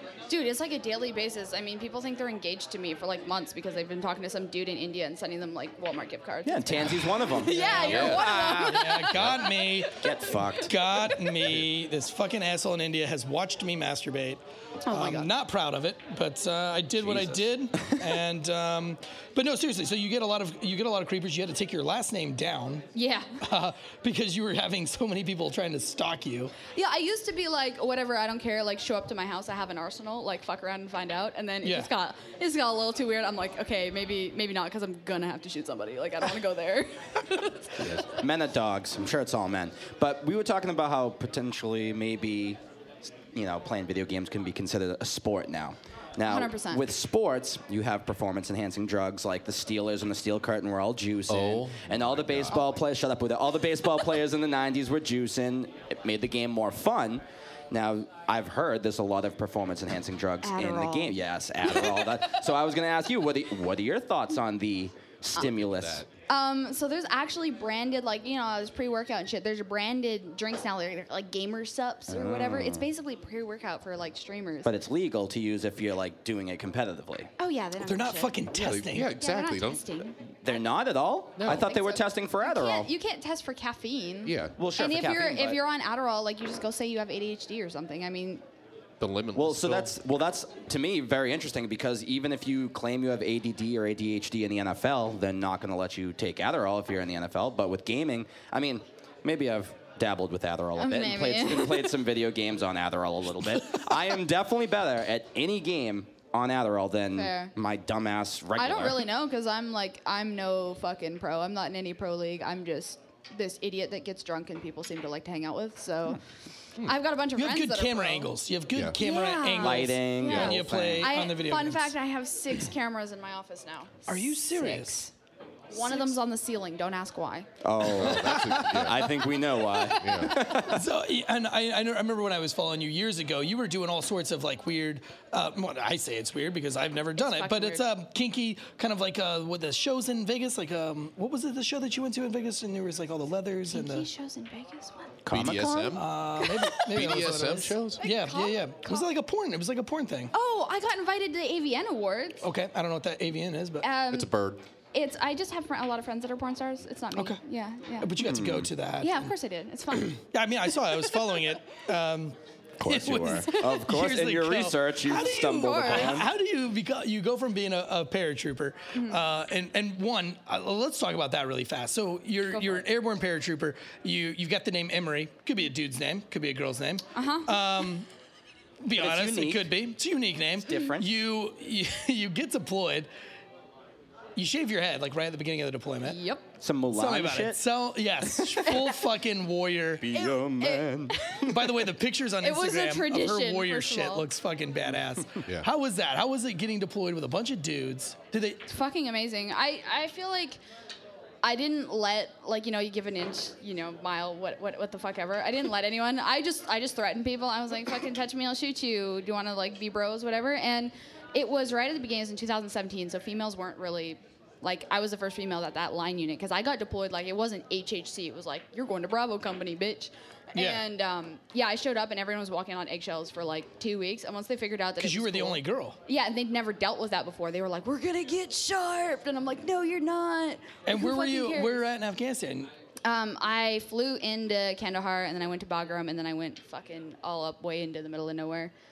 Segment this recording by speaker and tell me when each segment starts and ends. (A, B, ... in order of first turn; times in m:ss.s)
0:00.3-0:11.3 A
0:06.4-0:09.0 B
0:07.4-0:10.0 C
0:07.8-0:08.3 D
0:10.0-0:10.8 B
0:10.6-0:22.9 C
0:14.9-0:15.2 A
0:14.9-0:15.3 B
0:17.0-0:18.0 B
0:22.9-0:23.4 A
0:23.4-0:26.5 C
0:26.7-0:38.2 A
0:31.6-0:31.9 C
0:37.8-1:06.1 B
0:46.2-0:46.9 A
0:51.3-0:52.6 D
1:00.4-1:01.2 A
1:05.4-1:06.0 D
1:06.3-1:14.8 A
1:12.1-1:12.9 B
1:14.6-1:17.3 B
1:17.4-1:20.2 A
1:17.8-1:19.2 C
1:18.5-1:20.0 D
1:20.4-1:22.9 B
1:21.4-1:21.7 D
1:21.5-1:28.4 A
1:24.3-1:24.6 D
1:24.6-1:25.6 B
1:29.0-1:30.0 D
1:29.4-1:49.0 B
1:40.8-1:42.0 A
1:47.1-1:47.5 A
1:48.6-1:56.2 A
1:56.8-1:58.3 A
1:57.3-2:01.9 C
1:59.0-2:05.1 A
1:59.6-2:01.1 B
2:00.3-2:00.6 D
2:04.1-2:05.0 C
2:05.7-2:07.5 A
2:05.7-2:06.2 C
2:07.6-2:10.8 B
2:07.8-2:09.1 D
2:08.0-2:08.9 C
2:09.7-2:10.6 A
2:10.0-2:10.4 D
2:10.7-2:24.1 C
2:17.2-2:17.9 A
2:23.7-2:25.2 A
2:25.2-2:26.0 B
2:25.3-2:26.0 D
2:26.0-2:30.3 C
2:26.4-2:26.9 A
2:26.7-2:28.0 D
2:28.0-2:29.1 A
2:30.3-2:32.4 A
2:32.4-2:33.9 C
2:33.8-2:34.3 A
2:34.1-2:34.6 D
2:34.9-2:38.1 A
2:38.0-2:39.3 C
2:38.2-2:38.7 B
2:39.0-2:40.2 A
2:40.0-2:58.1 C
2:42.8-2:46.3 B
2:43.5-2:43.8 A
2:45.6-2:46.2 A
2:48.9-2:49.2 A
2:52.5-2:52.9 A
2:57.1-2:57.7 A
2:58.8-3:03.1 C
2:59.0-2:59.8 B
3:00.6-3:01.1 B
3:04.4-3:06.2 C
3:06.0-3:06.4 A
3:06.6-3:07.6 B
3:06.9-3:10.1 C
3:08.3-3:09.0 A
3:10.0-3:11.5 B
3:10.1-3:11.6 A
3:11.5-3:18.6 C
3:12.4-3:14.3 A
3:18.7-3:20.6 A
3:21.4-3:51.8 A
3:40.6-3:40.8 C
3:45.0-3:46.0 C
3:50.9-3:52.7 C
3:53.0-3:58.7 A